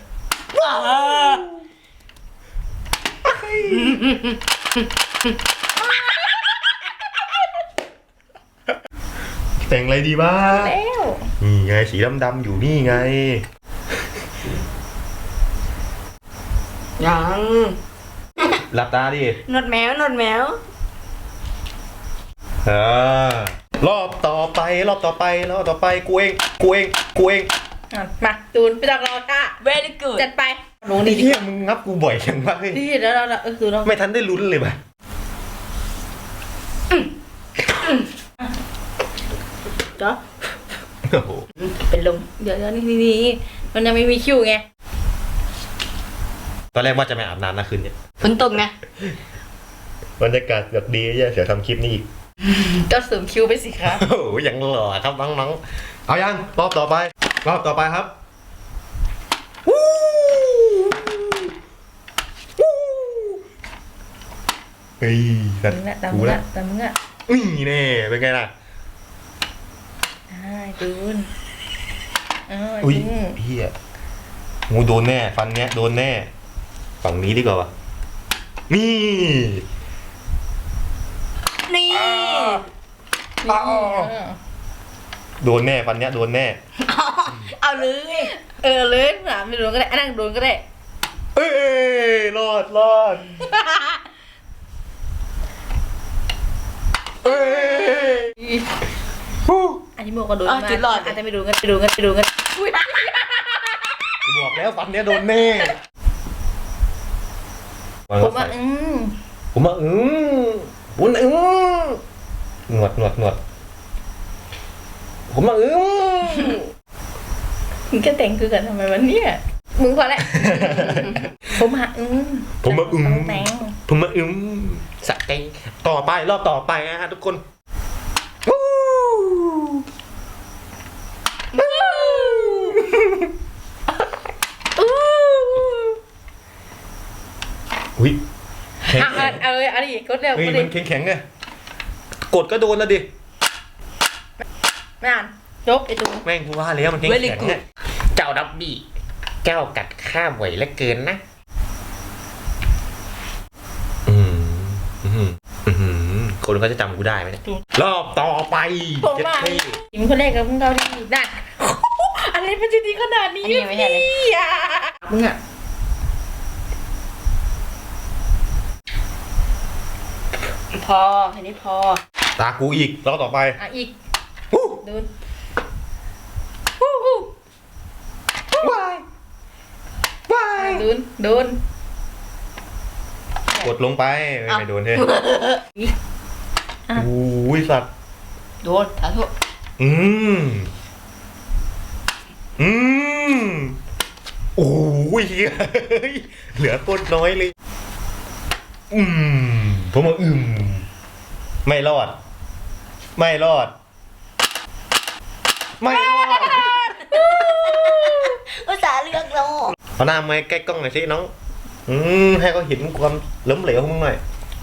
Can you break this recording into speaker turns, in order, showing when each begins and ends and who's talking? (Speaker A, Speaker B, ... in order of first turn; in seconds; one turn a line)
Speaker A: 0.6-1.5
Speaker A: 3.2-4.0
Speaker A: 9.6-10.7
Speaker B: 10.5-11.3
Speaker A: 11.4-13.4
Speaker C: 17.0-17.8
Speaker A: 18.6-19.4
Speaker C: 19.4-20.6
Speaker A: 22.6-27.5
Speaker B: 27.9-29.6
Speaker C: 29.6-30.2
Speaker B: 30.1-31.4
Speaker A: 30.9-32.8
Speaker B: 32.7-33.9
Speaker A: 33.8-34.8
Speaker C: 37.8-38.0
Speaker A: 41.0-41.5
Speaker C: 41.6-42.2
Speaker B: 42.2-44.6
Speaker A: 46.7-48.0
Speaker C: 48.2-48.7
Speaker A: 50.2-52.0
Speaker B: 52.6-54.0
Speaker A: 53.8-58.1
Speaker A: 59.6-61.5
Speaker A: 62.6-63.4
Speaker A: 65.0-66.4
Speaker B: 65.7-66.9
Speaker A: 67.3-68.5
Speaker B: 70.3-71.3
Speaker B: 72.5-73.4
Speaker A: 72.8-73.7
Speaker A: 74.7-76.3
Speaker A: 77.0-77.7
Speaker A: 78.7-79.6
Speaker C: 81.7-82.6
Speaker B: 82.1-82.4
Speaker B: 83.4-84.4
Speaker A: 83.5-84.1
Speaker A: 85.4-86.6
Speaker C: 86.8-88.3
Speaker B: 88.3-90.6
Speaker A: 91.3-93.4
Speaker A: 97.2-98.3
Speaker B: 98.4-98.6
Speaker A: 99.4-99.8
Speaker B: 100.0-103.2
Speaker C: 100.4-101.2
Speaker A: 104.2-105.8
Speaker B: 108.2-109.2
Speaker A: 109.5-112.0
Speaker A: 112.7-113.4
Speaker A: 115.3-116.6
Speaker B: 117.9-123.7
Speaker A: 120.5-121.2
Speaker A: 122.6-127.4
Speaker A: 128.4-129.8
Speaker B: 131.5-132.8
Speaker A: 131.7-133.3
Speaker B: 134.8-136.0
Speaker B: 138.8-140.7
Speaker A: 138.9-139.4
Speaker A: 140.3-141.2
Speaker A: 142.3-143.1
Speaker B: 145.0-146.2
Speaker A: 146.2-148.8
Speaker C: 147.0-147.6
Speaker A: 149.4-151.2
Speaker A: 154.1-159.8
Speaker B: 159.0-165.4
Speaker C: 163.4-164.1
Speaker C: 170.7-172.0
Speaker A: 172.4-173.6
Speaker B: 173.6-173.9
Speaker A: 174.5-174.8
Speaker B: 174.8-175.1
Speaker B: 176.8-177.3
Speaker A: 178.6-179.0
Speaker A: 180.3-180.9
Speaker B: 180.6-181.6
Speaker A: 183.6-185.1
Speaker C: 185.0-185.6
Speaker A: 186.9-187.9
Speaker C: 188.6-189.3
Speaker A: 189.8-190.7
Speaker A: 192.6-193.8
Speaker A: 194.6-197.5
Speaker A: 198.9-200.8
Speaker A: 201.6-202.2
Speaker A: 203.2-203.7
Speaker A: 205.8-207.1
Speaker B: 206.2-208.4
Speaker C: 207.2-209.7
Speaker A: 210.0-211.3
Speaker A: 211.9-214.2